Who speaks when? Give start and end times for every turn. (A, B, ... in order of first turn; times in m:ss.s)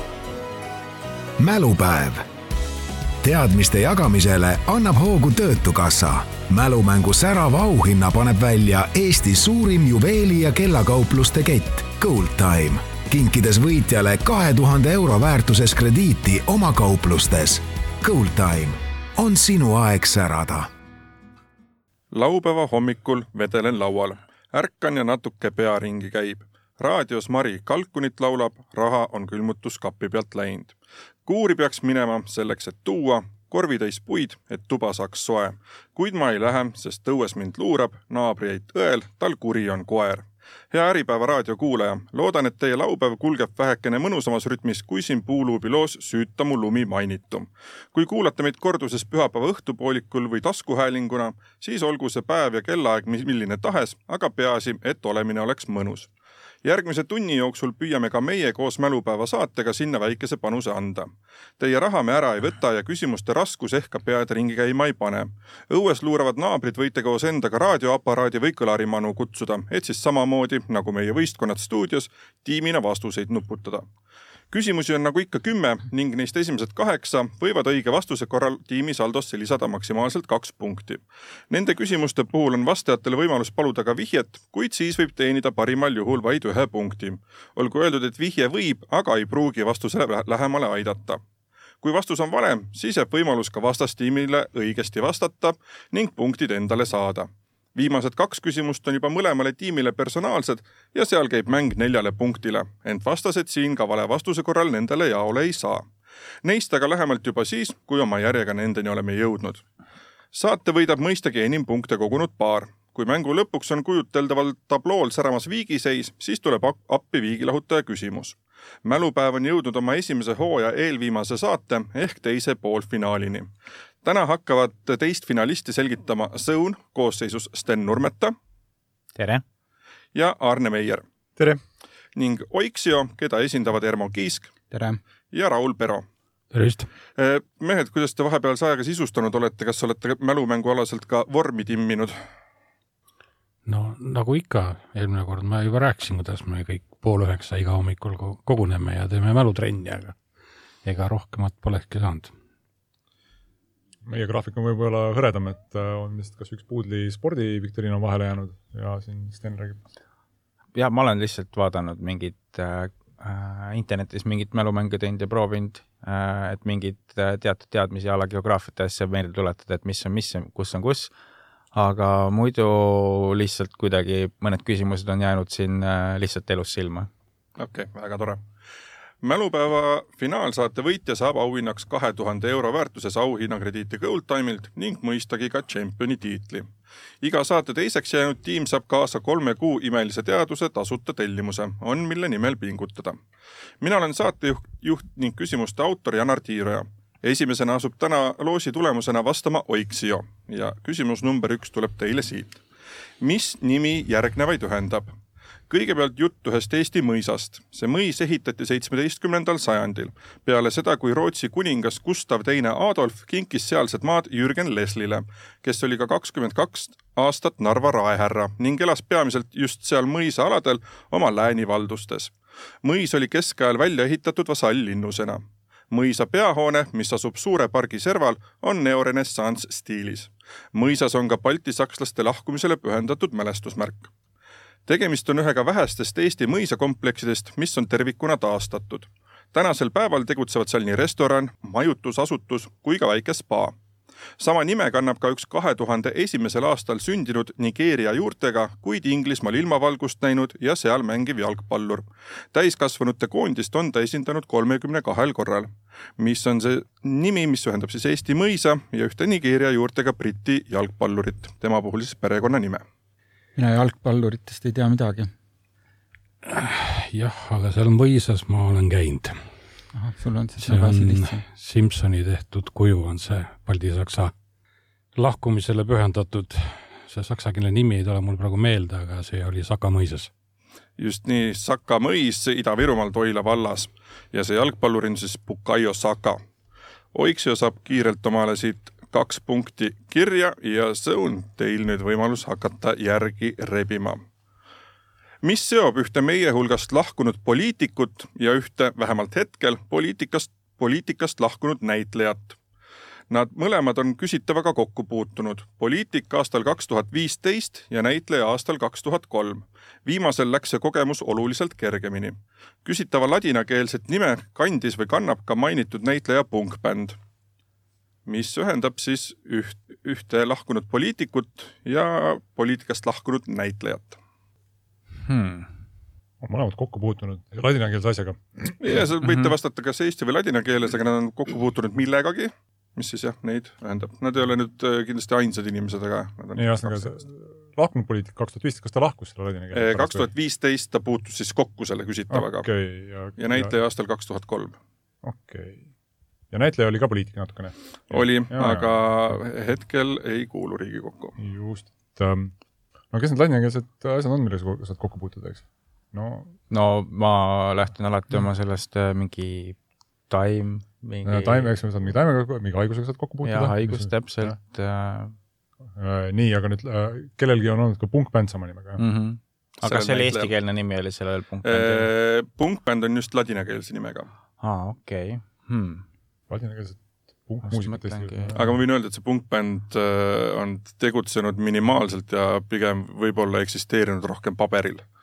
0:01.4-0:02.3 A
0:03.2-0:20.7 A
0:22.1-0:30.7 B
0:31.2-0:56.1 B
0:56.6-1:13.9 B
1:14.5-1:31.2 B
1:31.8-1:45.8 B
1:46.4-1:49.6 B
1:50.3-2:03.5 B
2:04.0-2:08.4 B
2:09.2-2:09.4 C
2:10.1-2:11.0 B
2:12.2-2:14.5 B
2:14.7-2:15.0 D
2:15.3-2:16.0 B
2:16.5-2:16.9 E
2:17.2-2:22.2 B
2:23.6-2:30.2 E
2:30.8-2:32.3 E
2:34.0-2:39.8 F
2:40.7-2:51.1 C
2:51.7-2:57.1 C
2:57.6-2:58.4 B
2:59.2-3:06.7 B
3:07.2-3:13.2 B
3:13.8-3:22.6 B
3:23.2-3:25.1 B
3:25.7-3:42.3 B
3:42.8-3:54.1 B
3:54.9-4:03.7 B
4:04.4-4:22.8 B
4:23.6-4:25.3 D
4:26.4-4:29.4 E
4:29.9-4:31.4 D
4:30.6-4:34.3 E
4:35.1-4:40.3 E
4:41.0-4:46.4 B
4:47.1-4:54.2 B
4:55.4-5:02.6 B
5:03.3-5:17.2 B
5:18.2-5:24.2 B
5:25.2-5:25.7 C
5:26.4-5:28.8 F
5:28.8-5:37.2 B
5:29.2-5:29.5 C
5:36.6-5:40.3 F
5:39.7-5:42.7 B
5:42.3-5:43.7 F
5:43.4-5:44.8 B
5:45.2-5:45.8 F
5:46.5-5:48.9 F
5:48.1-5:51.3 B
5:51.4-5:52.5 F
5:53.1-5:56.5 F
5:56.7-5:59.8 C
6:00.3-6:01.7 C
6:01.2-6:04.6 F
6:03.4-6:05.3 C
6:06.0-6:09.0 F
6:09.0-6:12.1 C
6:09.8-6:10.5 B
6:11.6-6:14.3 B
6:14.6-6:16.0 C
6:16.5-6:18.8 F
6:17.6-6:18.6 C
6:18.5-6:25.0 B